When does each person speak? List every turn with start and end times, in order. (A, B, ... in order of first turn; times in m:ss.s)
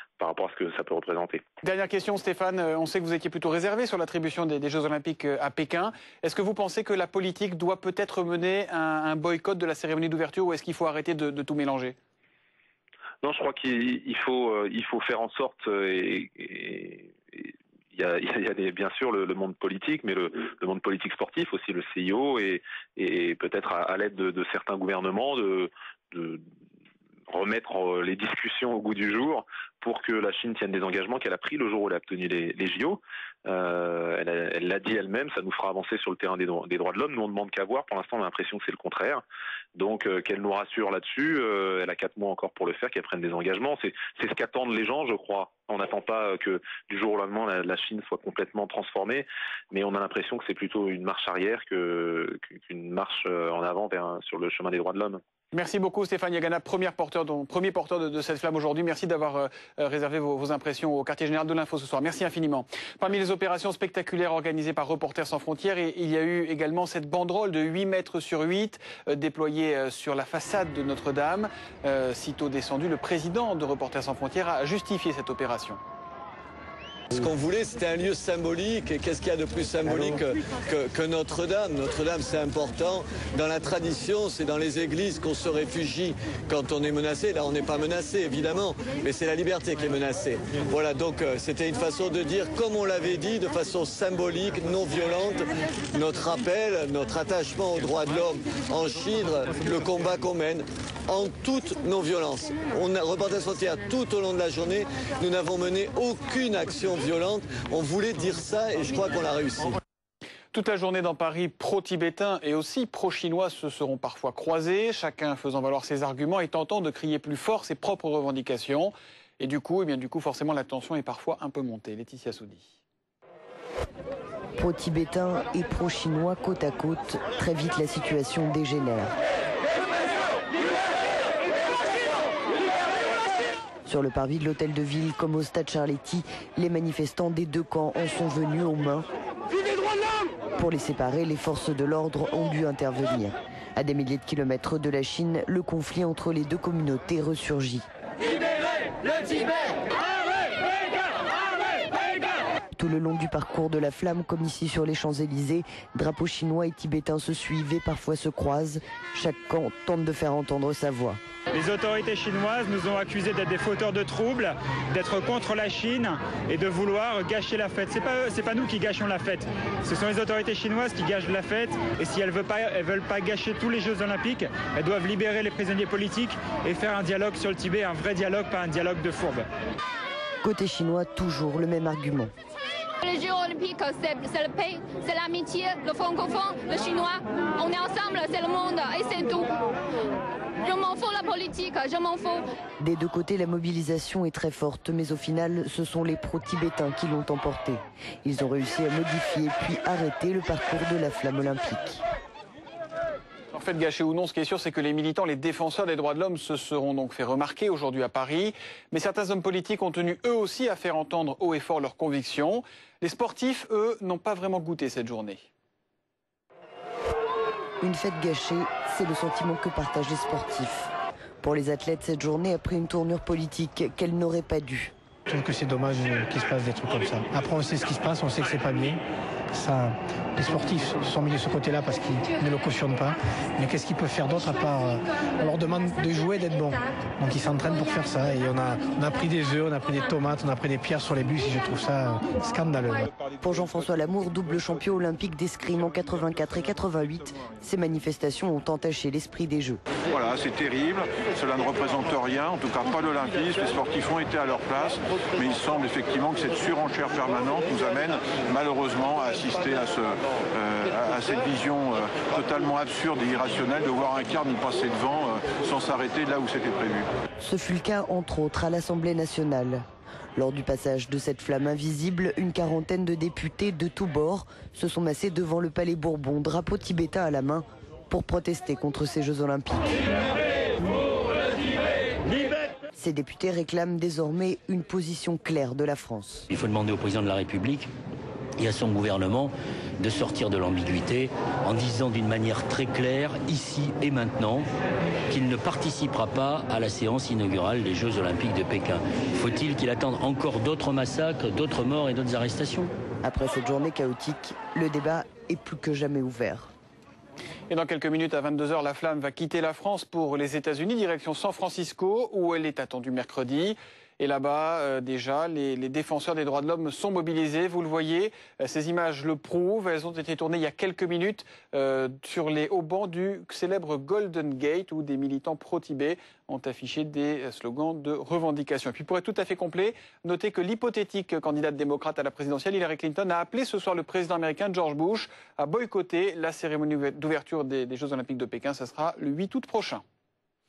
0:00.2-0:01.4 A
0:01.6-0:11.9 B
0:13.2-0:26.4 A
0:27.3-0:39.2 A
0:39.7-0:55.2 A
0:55.5-1:15.8 B
1:17.1-1:49.8 C
1:50.5-1:58.9 B
1:59.4-2:02.6 B
2:04.6-2:09.1 D
2:13.8-2:19.0 D
2:20.6-2:27.8 D
2:32.8-2:41.2 D
2:41.5-2:59.5 E
3:00.4-3:02.3 D
3:03.0-3:09.5 F
3:10.6-3:12.4 F
3:12.8-3:22.0 D
3:23.5-3:35.4 B
3:37.8-3:40.9 D
3:41.4-3:44.9 D
3:45.3-3:49.0 G
3:49.5-4:03.1 G
4:03.4-4:09.8 D
4:10.1-4:27.1 H
4:27.4-4:29.8 D
4:30.4-4:40.2 D
4:42.9-4:46.4 D
4:46.5-4:47.9 I
4:48.6-4:54.7 I
4:55.3-5:02.9 I
5:03.2-5:06.7 D
5:07.7-5:40.0 B